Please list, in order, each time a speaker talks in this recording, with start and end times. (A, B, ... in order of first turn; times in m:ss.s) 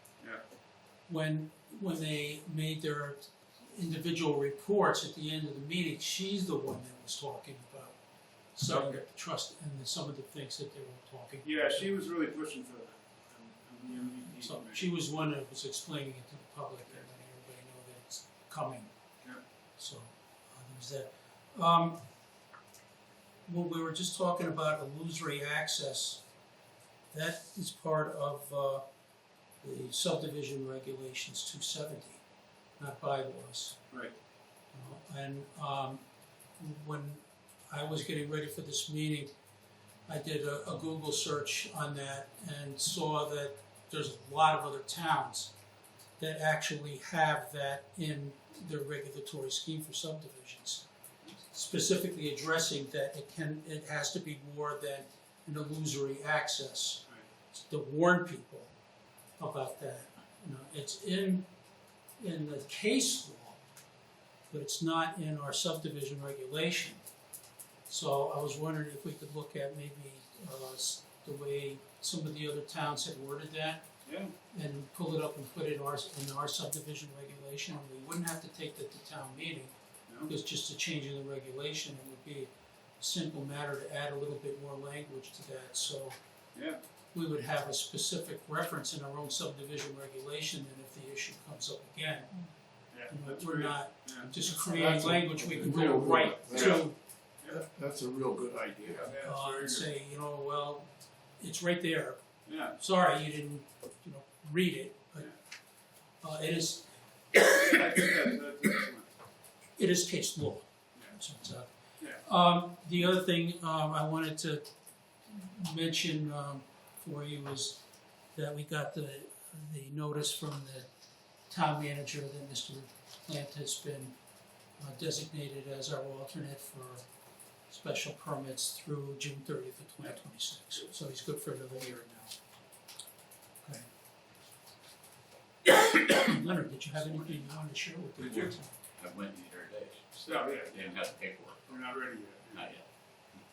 0:01.1-0:08.0 A
0:08.6-0:12.0 A
0:08.6-0:09.0 B
0:11.4-0:14.9 B
0:14.4-0:18.9 A
0:19.8-0:22.0 A
0:23.5-0:26.2 A
0:27.1-0:28.8 A
0:29.6-0:32.2 A
0:32.8-0:33.8 A
0:33.9-0:34.2 B
0:34.7-0:36.0 A
0:36.6-0:39.3 A
0:40.1-0:45.5 A
0:46.2-0:50.9 A
0:51.5-0:58.7 A
0:59.4-1:01.5 A
1:02.2-1:03.6 A
1:04.5-1:07.0 A
1:07.9-1:13.9 A
1:14.0-1:14.3 B
1:14.5-1:26.2 A
1:26.6-1:26.8 B
1:27.1-1:32.4 A
1:32.9-1:34.5 B
1:33.1-1:37.0 A
1:34.6-1:36.9 C
1:36.5-1:36.9 B
1:37.5-1:39.1 C
1:38.9-1:39.9 B
1:39.2-1:42.2 A
1:42.5-1:42.8 B
1:42.8-1:45.3 A
1:46.2-1:47.9 A
1:47.6-1:49.1 B
1:49.8-1:51.7 A
1:52.2-1:54.7 A
1:55.3-1:57.8 A
1:58.3-2:00.9 A
2:01.5-2:04.2 A
2:04.8-2:07.0 A
2:07.7-2:12.4 A
2:15.6-2:18.7 A
2:16.9-2:17.6 D
2:18.2-2:21.8 D
2:20.2-2:21.0 B
2:21.7-2:22.8 B
2:22.5-2:22.8 D